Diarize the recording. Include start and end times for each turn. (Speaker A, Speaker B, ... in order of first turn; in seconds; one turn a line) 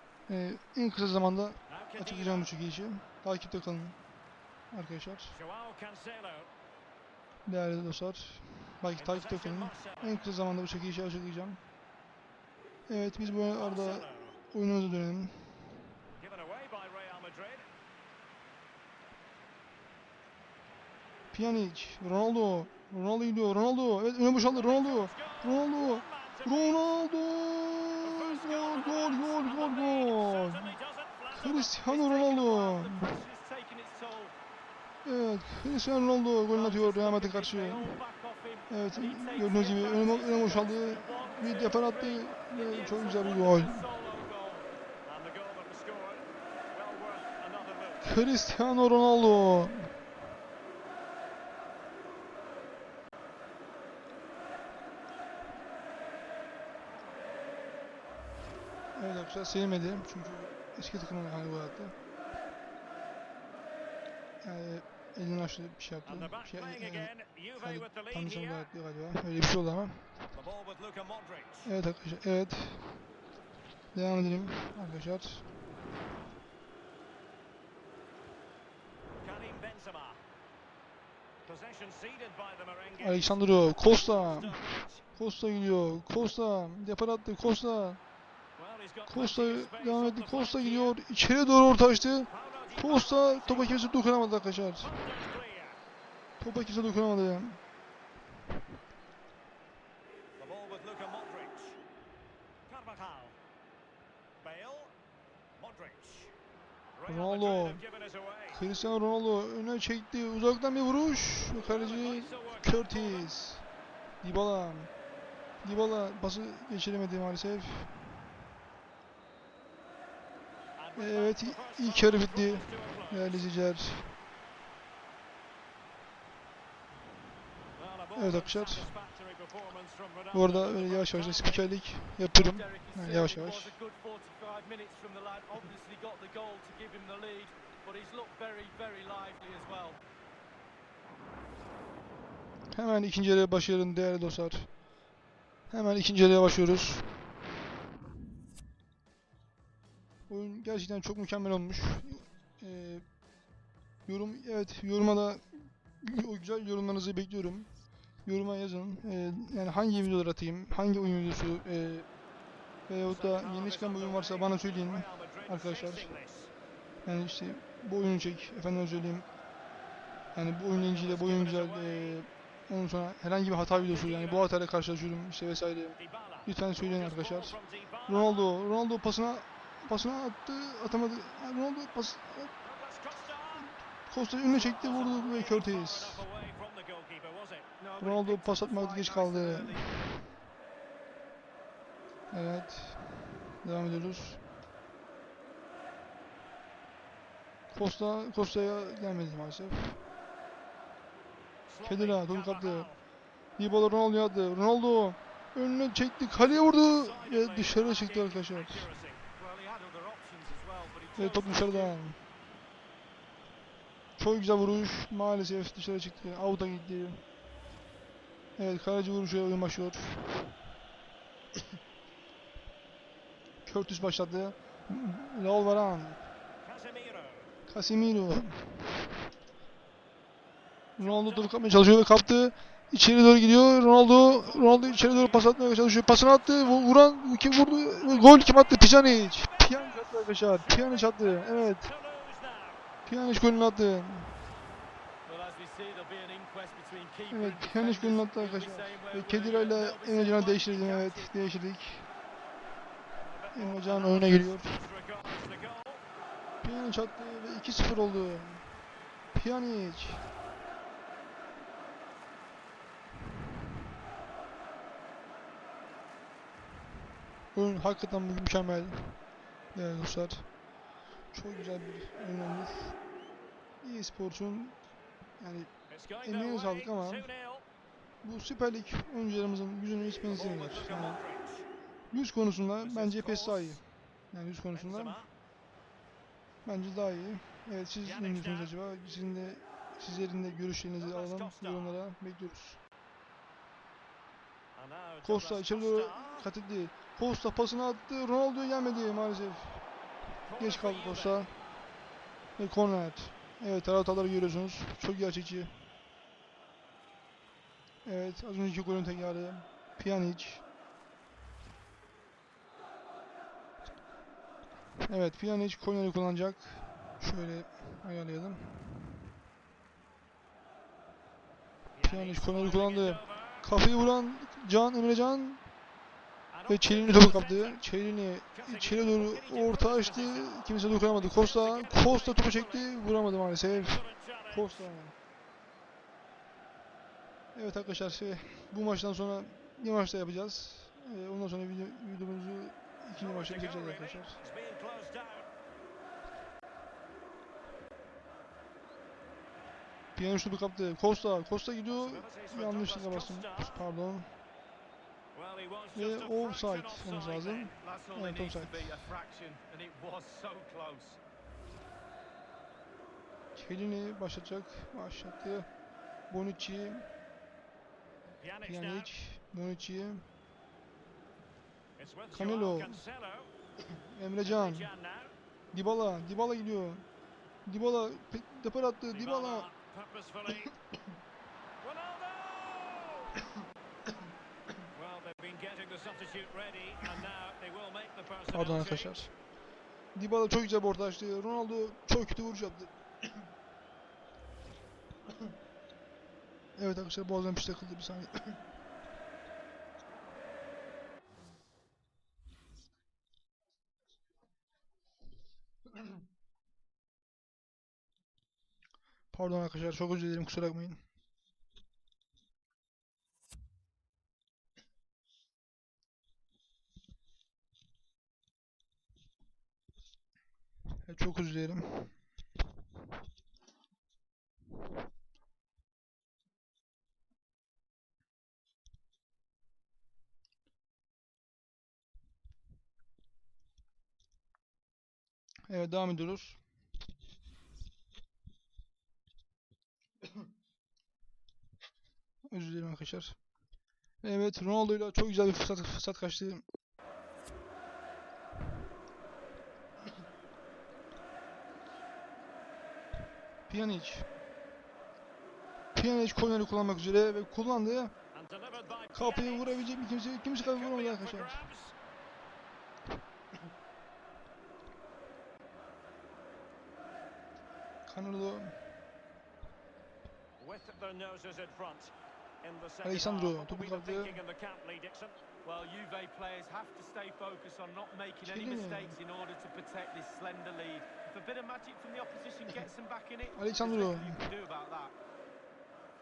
Speaker A: 0.3-4.0
Speaker B: 1.7-2.5
Speaker A: 4.7-5.4
Speaker B: 5.3-6.5
Speaker A: 7.5-11.6
Speaker B: 8.9-10.2
Speaker A: 12.9-15.6
Speaker B: 13.4-14.4
Speaker B: 16.2-17.7
Speaker A: 21.3-30.8
Speaker B: 24.4-27.0
Speaker B: 28.0-32.1
Speaker A: 31.3-33.1
Speaker C: 31.9-34.3
Speaker A: 35.0-38.0
Speaker C: 36.5-44.7
Speaker A: 38.7-43.8
Speaker B: 45.0-48.2
Speaker A: 48.0-49.9
Speaker A: 58.9-61.9
Speaker A: 64.4-70.1
Speaker B: 66.0-68.7
Speaker B: 70.3-71.7
Speaker A: 71.6-73.0
Speaker A: 73.9-75.5
Speaker B: 79.2-80.2
Speaker B: 81.4-85.1
Speaker A: 83.0-84.6
Speaker A: 85.2-88.0
Speaker B: 88.6-91.0
Speaker A: 89.1-94.9
Speaker B: 92.3-94.0
Speaker B: 94.8-95.8
Speaker A: 96.4-97.6
Speaker B: 100.4-101.8
Speaker B: 102.7-103.4
Speaker B: 104.4-104.9
Speaker B: 105.6-106.3
Speaker B: 107.0-108.6
Speaker A: 107.1-107.8
Speaker A: 108.5-113.7
Speaker B: 111.5-113.3
Speaker A: 114.2-114.9
Speaker A: 115.6-118.0
Speaker B: 120.8-123.5
Speaker A: 120.9-124.2
Speaker B: 127.8-131.8
Speaker A: 128.2-128.9
Speaker A: 130.3-133.8
Speaker C: 132.3-140.0
Speaker A: 142.7-144.7
Speaker A: 145.7-147.1
Speaker A: 150.3-153.1
Speaker A: 154.1-157.7
Speaker A: 158.2-162.1
Speaker A: 162.9-166.1
Speaker B: 163.1-166.5
Speaker A: 167.1-169.3
Speaker A: 170.3-182.5
Speaker B: 170.7-172.2
Speaker B: 173.7-174.5
Speaker B: 176.0-178.6
Speaker B: 182.6-183.8
Speaker A: 184.1-186.2
Speaker B: 184.4-187.7
Speaker C: 187.8-190.1
Speaker A: 188.0-190.1
Speaker A: 192.3-194.4
Speaker A: 197.7-200.0
Speaker B: 201.7-203.0
Speaker A: 201.8-202.9
Speaker A: 203.6-208.9
Speaker B: 206.3-209.3
Speaker C: 209.3-212.0
Speaker A: 211.2-212.2
Speaker A: 214.2-217.2
Speaker A: 218.6-220.5
Speaker A: 223.7-226.2
Speaker B: 226.6-227.5
Speaker A: 227.7-229.1
Speaker B: 231.0-231.6
Speaker A: 231.0-241.9
Speaker B: 234.1-237.0
Speaker B: 237.7-242.8
Speaker A: 243.1-244.4
Speaker C: 245.2-251.5
Speaker A: 247.3-252.1
Speaker B: 253.2-256.0
Speaker A: 253.5-254.8
Speaker A: 256.6-258.7
Speaker A: 259.3-260.3
Speaker A: 267.6-269.2
Speaker A: 269.7-270.5
Speaker A: 271.3-273.0
Speaker A: 273.8-274.8
Speaker A: 275.4-275.7
Speaker B: 275.9-277.7
Speaker A: 276.2-277.3
Speaker A: 278.2-281.2
Speaker B: 280.3-281.7
Speaker A: 282.1-285.2
Speaker B: 282.8-283.8
Speaker B: 284.7-285.3
Speaker A: 286.6-292.8
Speaker B: 288.0-288.7
Speaker B: 291.0-292.0
Speaker B: 294.8-296.5
Speaker A: 295.2-299.8
Speaker B: 300.5-301.5
Speaker A: 300.6-301.5
Speaker A: 302.6-305.8
Speaker A: 308.1-310.6
Speaker A: 315.1-319.2
Speaker B: 321.9-323.7
Speaker A: 322.0-325.6
Speaker B: 326.5-327.9
Speaker A: 326.7-335.1
Speaker B: 328.5-332.9
Speaker B: 333.7-334.9
Speaker A: 337.6-344.4
Speaker B: 343.2-345.5
Speaker A: 350.2-354.3
Speaker B: 351.9-353.9
Speaker B: 355.3-357.8
Speaker A: 355.9-359.1
Speaker C: 357.8-361.2
Speaker A: 363.6-365.7
Speaker A: 366.3-367.1
Speaker B: 368.4-369.1
Speaker A: 368.6-370.3
Speaker B: 372.0-373.5
Speaker A: 372.3-373.0
Speaker A: 373.9-374.9
Speaker B: 374.4-375.4
Speaker A: 375.7-377.1
Speaker A: 377.7-379.7
Speaker B: 379.1-380.8
Speaker B: 381.8-383.5
Speaker B: 384.9-389.3
Speaker A: 388.5-389.3
Speaker A: 390.1-392.9
Speaker A: 396.8-398.6
Speaker A: 409.3-411.0
Speaker A: 421.0-422.2
Speaker A: 435.7-436.6
Speaker A: 442.5-443.4
Speaker A: 444.2-446.6
Speaker A: 453.7-454.3
Speaker A: 455.9-458.1
Speaker B: 458.3-459.9
Speaker A: 459.1-461.6
Speaker B: 460.5-461.9
Speaker A: 468.1-468.8
Speaker B: 470.6-475.4
Speaker A: 473.0-474.4
Speaker C: 475.6-485.1
Speaker A: 478.4-479.2
Speaker A: 483.5-484.5